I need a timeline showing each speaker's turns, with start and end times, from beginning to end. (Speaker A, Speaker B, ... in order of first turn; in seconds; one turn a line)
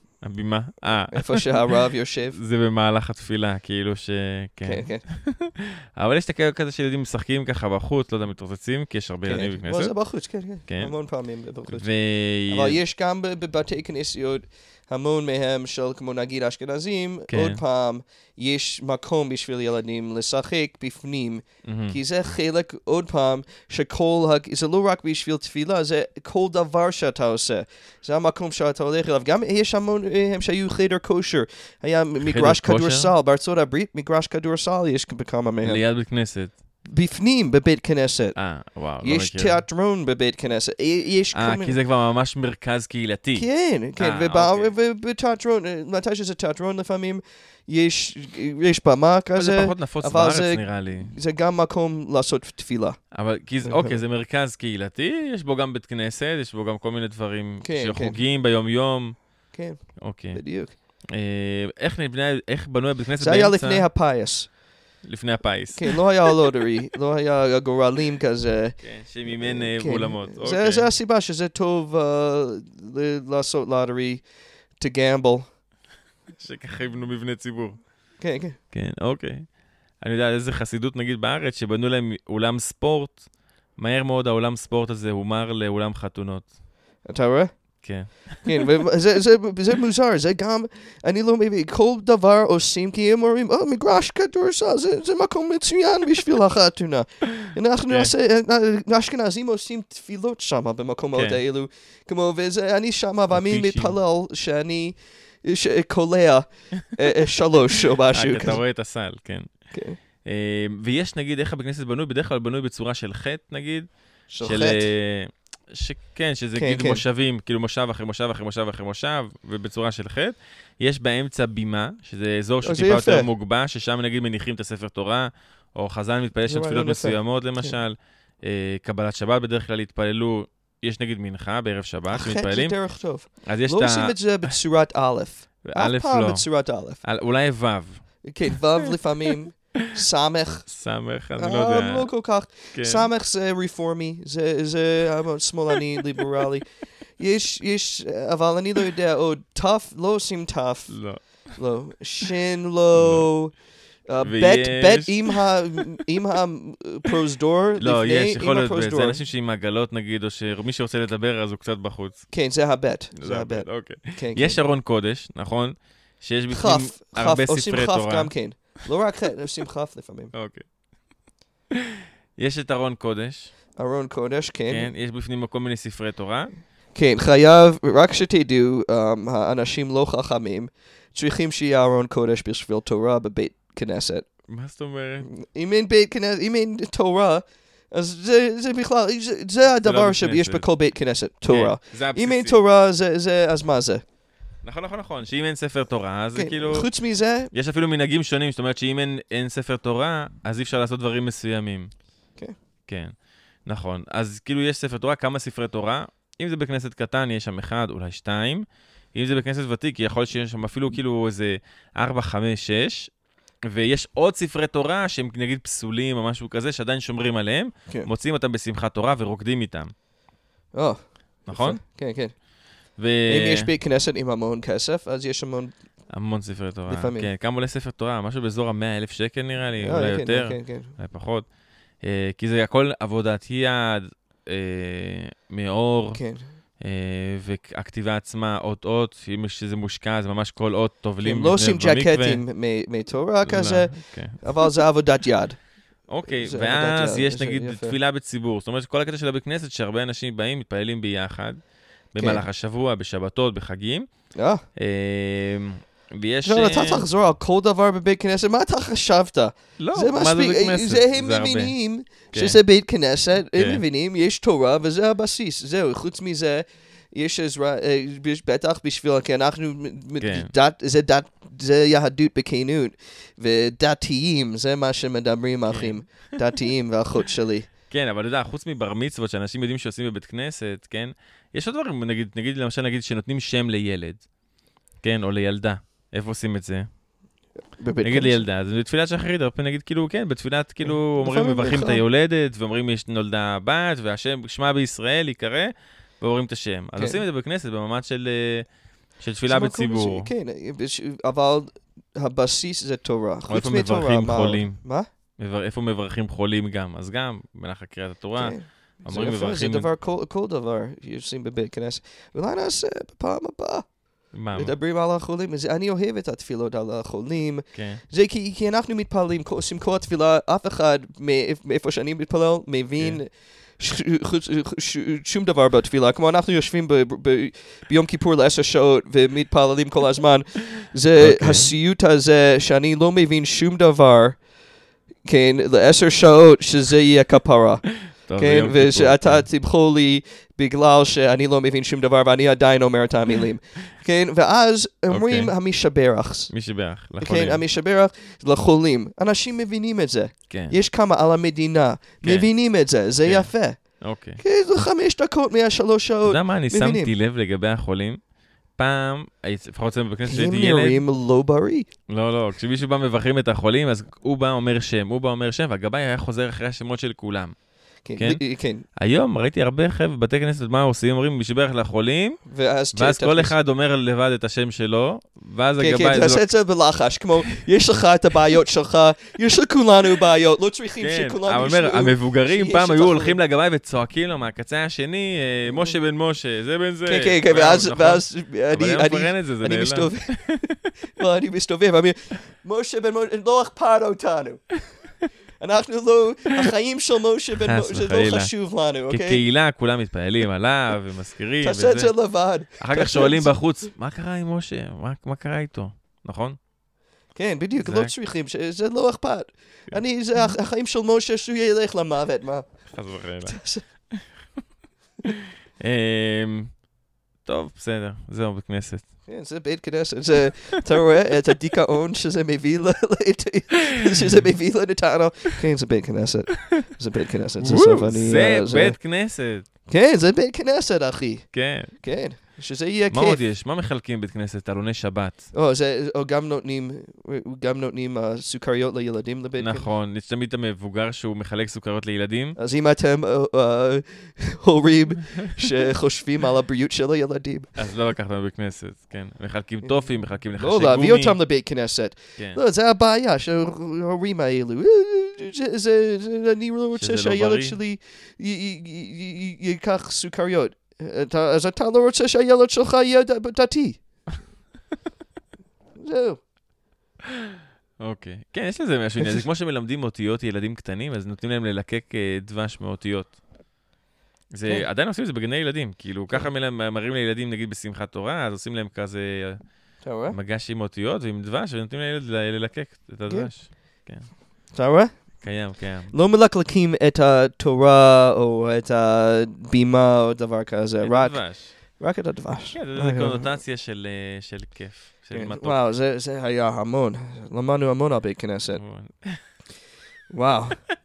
Speaker A: 0.2-1.7
Speaker B: 1.1-2.4
Speaker A: 2.3-9.9
Speaker B: 4.6-5.0
Speaker B: 9.2-11.9
Speaker A: 10.7-10.9
Speaker A: 11.7-12.8
Speaker B: 12.5-35.8
Speaker A: 17.3-17.6
Speaker A: 21.6-22.0
Speaker A: 32.2-33.1
Speaker A: 35.6-36.5
Speaker B: 36.9-38.4
Speaker A: 38.4-39.6
Speaker B: 39.0-41.8
Speaker A: 41.3-44.7
Speaker B: 43.4-53.0
Speaker A: 49.3-51.1
Speaker A: 53.1-59.2
Speaker B: 53.6-54.0
Speaker B: 57.6-58.2
Speaker B: 59.5-60.7
Speaker A: 60.0-60.4
Speaker A: 61.1-63.9
Speaker B: 63.2-64.5
Speaker A: 65.0-66.3
Speaker B: 65.7-74.2
Speaker A: 68.8-70.9
Speaker B: 74.8-75.5
Speaker A: 76.3-77.8
Speaker B: 78.2-78.6
Speaker A: 78.7-79.5
Speaker A: 80.0-83.2
Speaker A: 83.8-86.5
Speaker B: 87.0-87.8
Speaker A: 87.8-88.7
Speaker B: 88.4-108.6
Speaker A: 101.1-101.4
Speaker A: 103.3-104.0
Speaker A: 108.1-109.5
Speaker B: 109.7-110.0
Speaker A: 110.2-113.9
Speaker B: 114.3-114.9
Speaker A: 114.4-132.8
Speaker B: 116.5-117.0
Speaker B: 122.6-123.3
Speaker B: 126.5-127.8
Speaker B: 132.1-137.0
Speaker A: 133.4-134.5
Speaker A: 135.6-136.4
Speaker A: 137.0-138.0
Speaker B: 138.2-140.7
Speaker A: 140.7-142.1
Speaker B: 141.3-153.5
Speaker A: 142.7-143.1
Speaker A: 150.9-151.5
Speaker A: 152.9-153.3
Speaker B: 154.1-159.2
Speaker A: 154.2-155.4
Speaker A: 157.8-162.3
Speaker B: 162.3-164.6
Speaker A: 163.2-168.3
Speaker B: 166.5-170.3
Speaker A: 170.3-170.7
Speaker A: 171.7-173.5
Speaker B: 173.8-174.9
Speaker A: 174.7-176.5
Speaker B: 176.9-184.2
Speaker A: 184.5-185.3
Speaker B: 185.3-194.0
Speaker A: 189.8-190.7
Speaker A: 191.5-192.6
Speaker A: 194.6-196.9
Speaker B: 196.3-197.5
Speaker A: 197.5-201.9
Speaker A: 202.9-203.1
Speaker A: 203.6-213.1
Speaker A: 213.7-219.9
Speaker B: 220.7-222.3
Speaker A: 221.5-221.8
Speaker A: 222.9-223.7
Speaker B: 223.3-225.7
Speaker A: 226.1-231.5
Speaker B: 226.9-227.3
Speaker B: 229.8-230.9
Speaker A: 232.0-236.2
Speaker B: 236.1-236.5
Speaker A: 236.8-242.4
Speaker B: 241.2-245.6
Speaker A: 243.4-244.7
Speaker A: 246.1-251.6
Speaker B: 246.2-248.0
Speaker A: 252.1-254.1
Speaker B: 252.2-252.4
Speaker B: 254.3-254.6
Speaker A: 254.8-257.0
Speaker B: 256.4-277.7
Speaker A: 259.8-261.7
Speaker A: 262.3-262.6
Speaker A: 263.5-263.8
Speaker A: 270.2-270.5
Speaker A: 275.7-276.1
Speaker A: 277.9-284.3
Speaker A: 285.0-286.8
Speaker B: 287.8-288.4
Speaker A: 288.0-298.6
Speaker B: 290.8-292.0
Speaker B: 296.9-297.2
Speaker A: 299.2-300.3
Speaker B: 299.5-305.1
Speaker A: 303.5-304.8
Speaker A: 305.4-309.9
Speaker B: 308.4-313.9
Speaker A: 314.3-314.7
Speaker B: 314.5-334.4
Speaker A: 317.7-318.0
Speaker A: 331.2-331.7
Speaker B: 335.2-346.5
Speaker A: 338.2-339.4
Speaker A: 345.1-345.5
Speaker A: 346.5-347.6
Speaker B: 347.2-357.1
Speaker A: 350.5-350.8
Speaker A: 352.2-352.5
Speaker A: 353.2-354.4
Speaker A: 356.2-358.2
Speaker A: 358.8-361.0
Speaker B: 360.2-361.9
Speaker A: 362.1-367.5
Speaker B: 368.0-368.8
Speaker A: 368.1-368.4
Speaker A: 369.0-372.4
Speaker B: 372.5-373.5
Speaker A: 372.9-376.4
Speaker B: 375.8-383.4
Speaker A: 381.0-390.7
Speaker B: 387.1-390.6
Speaker B: 391.1-394.6
Speaker B: 395.6-399.4
Speaker A: 397.6-398.5
Speaker A: 399.1-402.1
Speaker B: 401.6-403.5
Speaker A: 402.8-406.6
Speaker B: 407.3-412.7
Speaker A: 407.8-408.1
Speaker A: 412.9-413.6
Speaker B: 413.4-413.8
Speaker A: 415.2-416.8
Speaker A: 417.4-419.1
Speaker B: 419.3-429.0
Speaker A: 427.6-429.6
Speaker B: 429.9-433.4
Speaker A: 431.5-431.9
Speaker A: 433.1-435.5
Speaker B: 435.5-439.9
Speaker A: 439.6-442.6
Speaker B: 442.6-447.7
Speaker A: 447.7-451.4
Speaker B: 450.6-464.0
Speaker A: 456.9-457.8
Speaker B: 466.0-466.4
Speaker A: 468.0-473.4
Speaker A: 474.5-479.6
Speaker B: 480.0-480.4
Speaker A: 480.3-484.3
Speaker B: 483.2-483.5
Speaker B: 484.7-485.6
Speaker A: 485.4-486.1
Speaker B: 486.1-493.6
Speaker A: 491.0-491.7
Speaker A: 492.7-495.8
Speaker B: 495.3-498.8
Speaker A: 498.8-499.4
Speaker B: 500.3-500.8